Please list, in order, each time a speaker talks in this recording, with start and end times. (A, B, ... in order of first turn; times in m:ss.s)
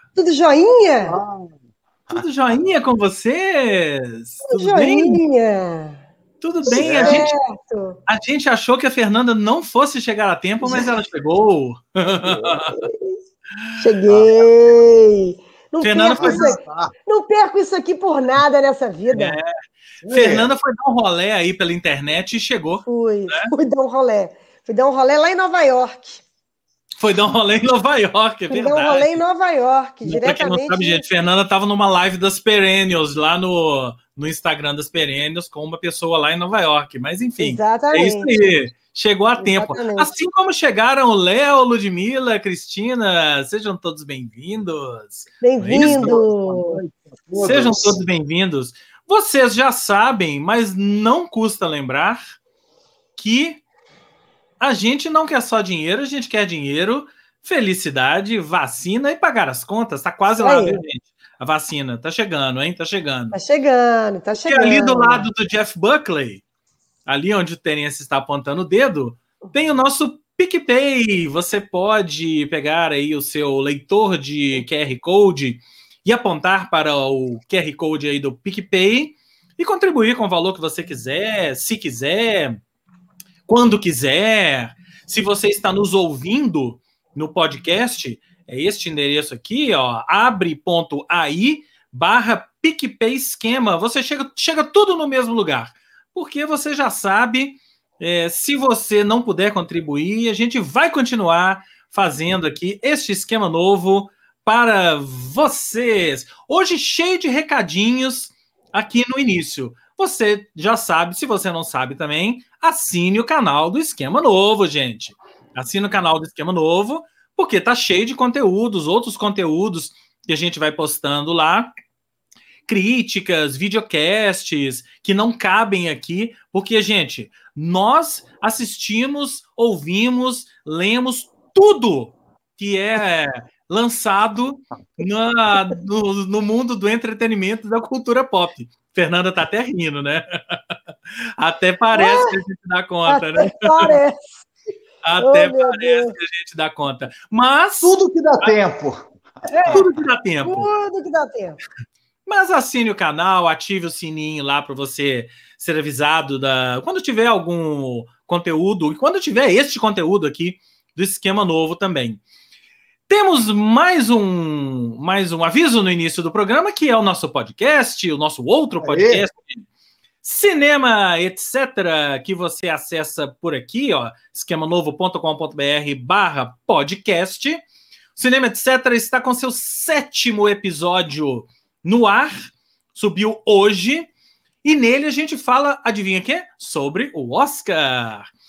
0:00.2-0:01.2 A
0:01.1-0:01.6 B
0:02.1-0:05.2 C
0:04.5-0:06.1 A
0:06.4-0:07.3 C
0:06.7-0:07.3 B
0:06.7-0:08.0 A
0:08.1-0:12.8 C
0:12.2-0:13.2 A
0:13.8-0:19.4 A
0:14.1-0:14.4 B
0:15.8-0:16.5 C
0:16.2-0:16.9 B
0:19.1-0:19.5 C
0:20.0-0:20.5 B
0:20.1-0:23.5 C
0:22.9-0:26.2 A
0:27.0-0:29.2 C
0:28.5-0:31.0 A
0:30.0-0:46.2 C
0:37.4-0:38.4 A
0:39.4-0:40.1 A
0:45.4-0:46.8 A
0:45.8-0:48.0 B
0:47.4-0:52.2 C
0:53.2-0:53.6 C
0:54.6-1:03.4 C
1:00.4-1:00.8 A
1:03.3-1:05.3 A
1:04.5-1:06.4 C
1:07.1-1:22.6 C
1:23.5-2:01.7 C
2:02.7-2:20.6 C
2:21.4-2:24.0 C
2:22.0-2:22.3 A
2:23.1-2:24.4 A
2:25.0-2:28.5 C
2:25.2-2:26.1 A
2:27.8-2:29.9 B
2:29.5-2:29.8 A
2:29.7-2:30.7 C
2:30.4-2:31.6 A
2:32.3-2:42.2 C
2:43.1-2:49.6 C
2:48.8-2:49.2 B
2:50.2-2:57.6 C
2:58.2-3:04.1 C
3:04.6-3:08.3 C